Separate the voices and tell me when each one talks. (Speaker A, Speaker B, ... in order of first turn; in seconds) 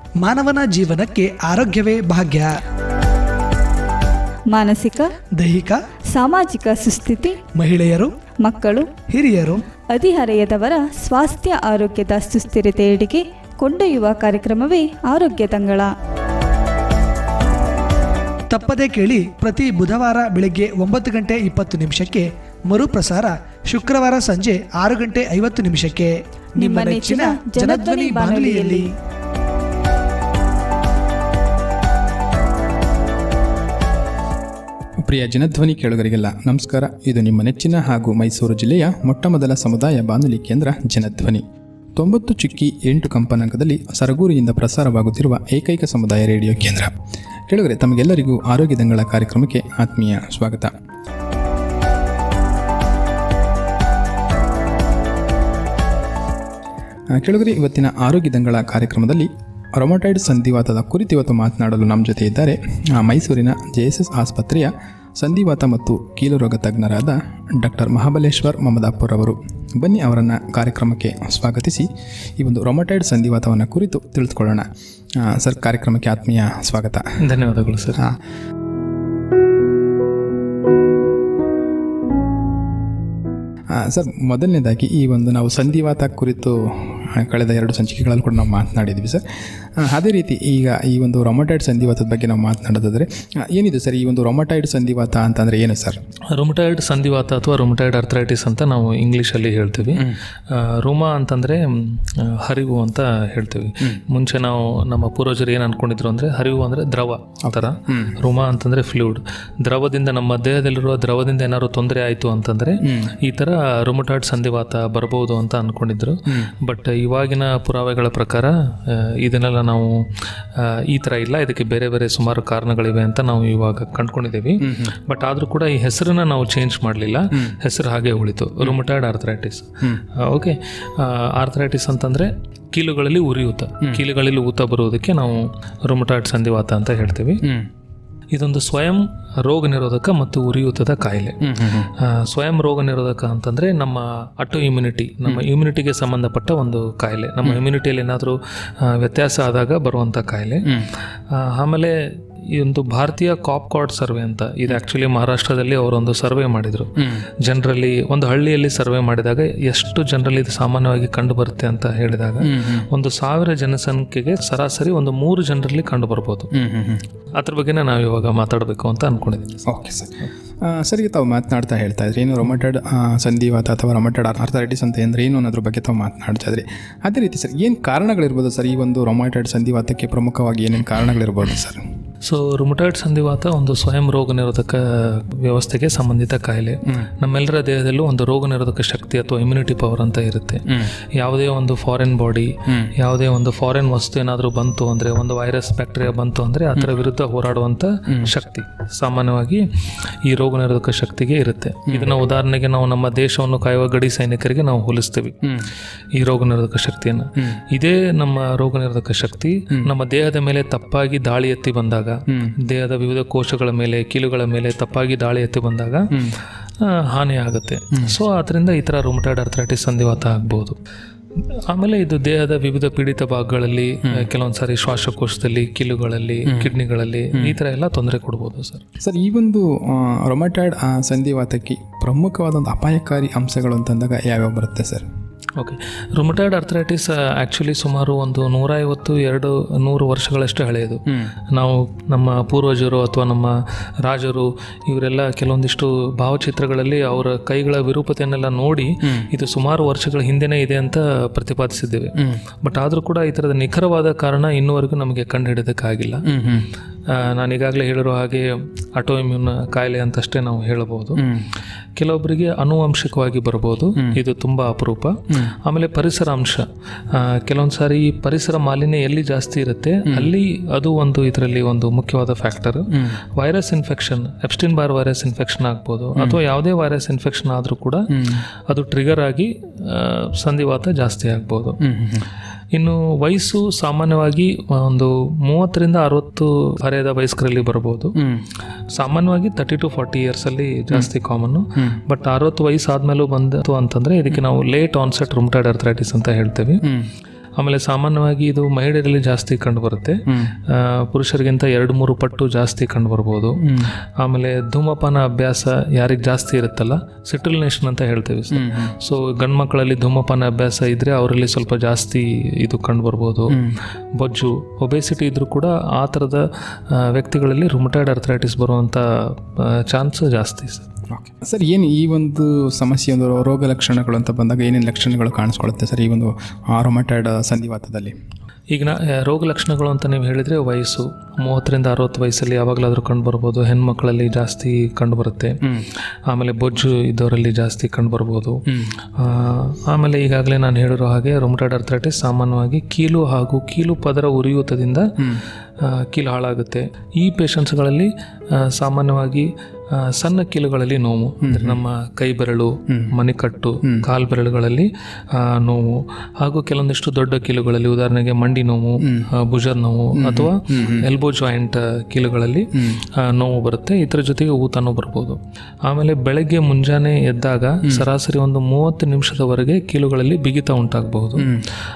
Speaker A: 0.2-2.5, 5.4-5.8, 7.5-8.1, 9.0-9.6, 18.5-28.9
Speaker B: 4.5-5.1, 6.1-7.4, 8.4-9.0, 9.9-15.9, 26.6-28.8
Speaker C: 35.0-41.4, 42.0-46.9, 47.5-50.7, 57.1-71.9, 72.4-77.1, 83.7-89.2, 89.8-96.0, 99.9-100.2, 107.5-108.2, 112.8-113.2, 116.3-116.5, 124.6-124.9, 137.4-137.7, 141.4-141.9, 150.6-150.9, 157.0-157.3, 162.4-162.9, 166.5-167.1, 169.7-181.8, 190.7-190.9, 192.7-192.9, 201.9-202.2, 205.4-205.7, 212.3-212.5, 216.1-216.4, 226.5-226.7, 229.0-235.1, 249.0-249.3, 252.2-252.4, 256.2-256.7, 261.2-261.5, 264.0-264.2, 270.1-270.3, 272.9-273.2, 278.1-278.4, 281.8-282.3, 288.1-288.5, 296.8-297.1, 300.3-300.5, 303.6-303.9, 308.5-308.9, 313.5-313.8, 321.1-328.1, 338.7-338.9, 351.4-351.8, 352.9-353.1, 359.0-359.3, 360.1-361.1, 362.7-363.0, 371.4-371.6
Speaker D: 77.2-78.0, 96.3-137.5, 138.3-166.5, 167.3-169.7, 182.2-205.5, 206.1-216.1, 216.8-220.8, 221.5-228.8, 235.6-256.3, 257.1-261.3, 262.0-281.8, 282.7-288.2, 288.9-296.9, 297.6-320.9, 328.7-335.6, 336.3-345.1, 345.8-371.5